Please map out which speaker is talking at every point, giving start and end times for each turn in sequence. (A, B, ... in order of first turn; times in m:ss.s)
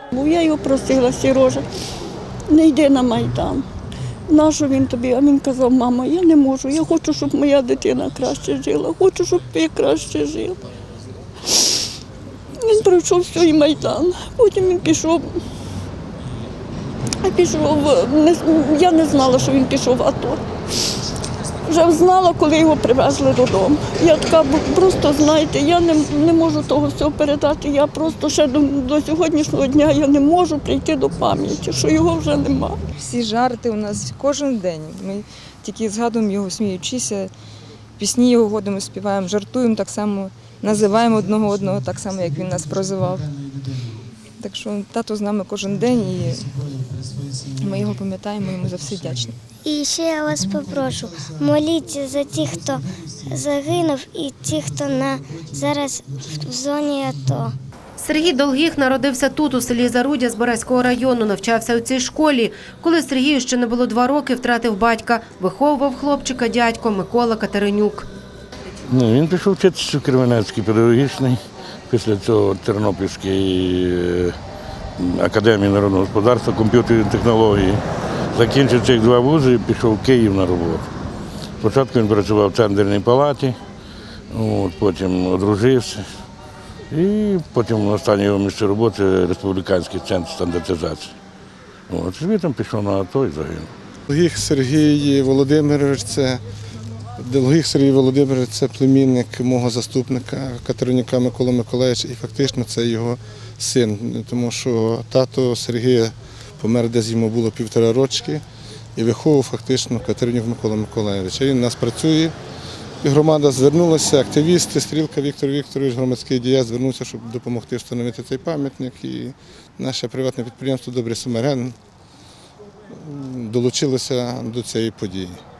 0:00.1-0:01.6 A
0:02.5-0:03.6 A
0:04.3-0:10.6 A
0:11.5-0:11.8 A
0:12.6-0:15.3 A
0:17.2-0:20.4 A
0:21.7-0:32.8 A
0:33.0-0:37.3 B
0:38.0-0:43.3 B
0:44.4-0:46.6 B
0:47.6-0:49.4 B
0:49.6-0:57.5 C
0:58.0-1:08.1 D
1:08.9-1:14.4 E
1:15.0-1:17.8 E
1:18.3-1:20.9 E
1:21.6-1:23.6 E
1:24.3-1:26.0 E
1:26.9-1:31.1 E
1:31.9-1:33.7 E
1:34.1-1:36.4 F
1:37.2-1:48.4 F
1:49.0-1:52.3 F
1:53.0-2:01.8 F
2:02.9-2:05.4 F